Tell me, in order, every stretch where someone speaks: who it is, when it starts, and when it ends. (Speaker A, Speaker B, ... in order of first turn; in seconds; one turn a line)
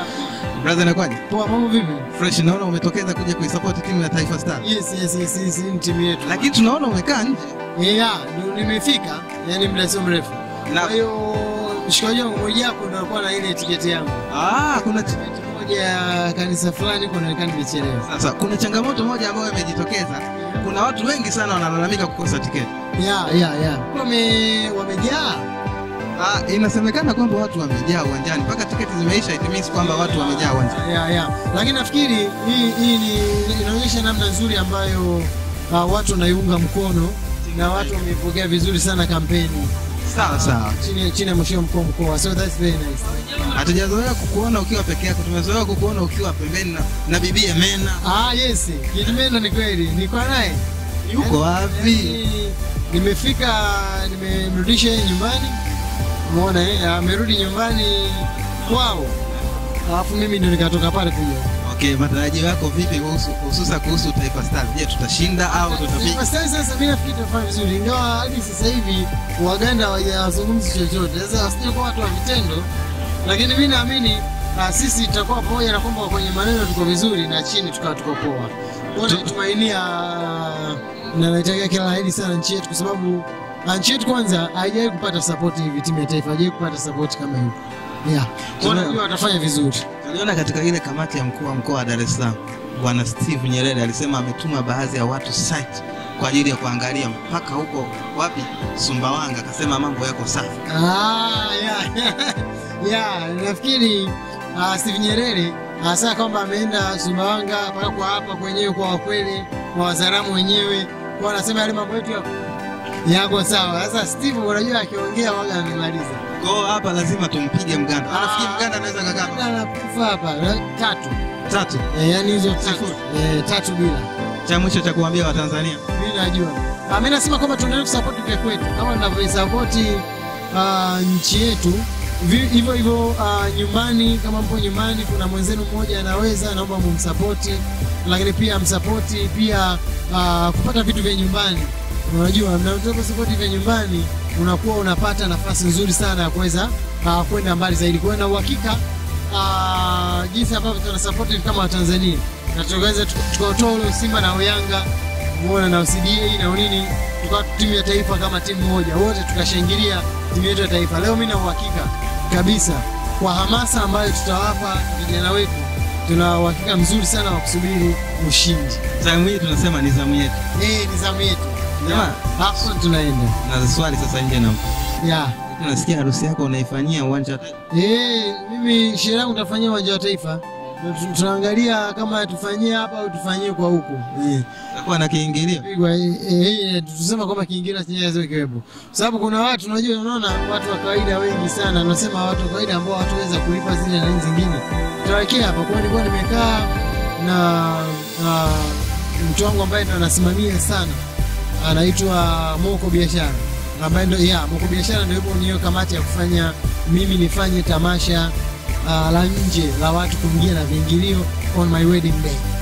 Speaker A: 0.6-1.2
Speaker B: 1.3-2.1
Speaker A: 2.1-4.6
Speaker B: 4.6-6.5
Speaker A: 6.2-7.5
Speaker B: 7.8-14.3
Speaker A: 10.7-10.9
Speaker A: 14.3-15.2
Speaker B: 15.0-18.1
Speaker A: 18.1-22.7
Speaker B: 20.3-20.6
Speaker B: 23.0-25.5
Speaker A: 26.2-30.8
Speaker B: 29.7-43.1
Speaker A: 37.5-38.0
Speaker A: 40.1-40.8
Speaker A: 43.5-48.0
Speaker B: 48.0-50.6
Speaker A: 51.0-52.2
Speaker B: 51.2-55.6
Speaker B: 56.3-59.2
Speaker B: 59.8-61.5
Speaker A: 61.6-66.2
Speaker B: 65.5-72.7
Speaker B: 73.2-89.8
Speaker A: 79.0-79.3
Speaker A: 88.6-89.0
Speaker A: 90.0-100.6
Speaker B: 100.7-112.3
Speaker B: 113.0-116.2
Speaker A: 116.4-119.4
Speaker B: 118.1-121.2
Speaker A: 121.5-121.9
Speaker B: 121.9-124.1
Speaker A: 122.6-123.0
Speaker A: 124.5-125.8
Speaker B: 125.9-168.8
Speaker A: 169.0-170.4
Speaker B: 170.6-173.4
Speaker A: 171.8-172.2
Speaker A: 173.4-174.6
Speaker B: 175.0-175.4
Speaker A: 175.5-177.6
Speaker B: 177.7-184.4
Speaker A: 184.7-185.7
Speaker B: 185.6-201.0
Speaker B: 201.6-212.5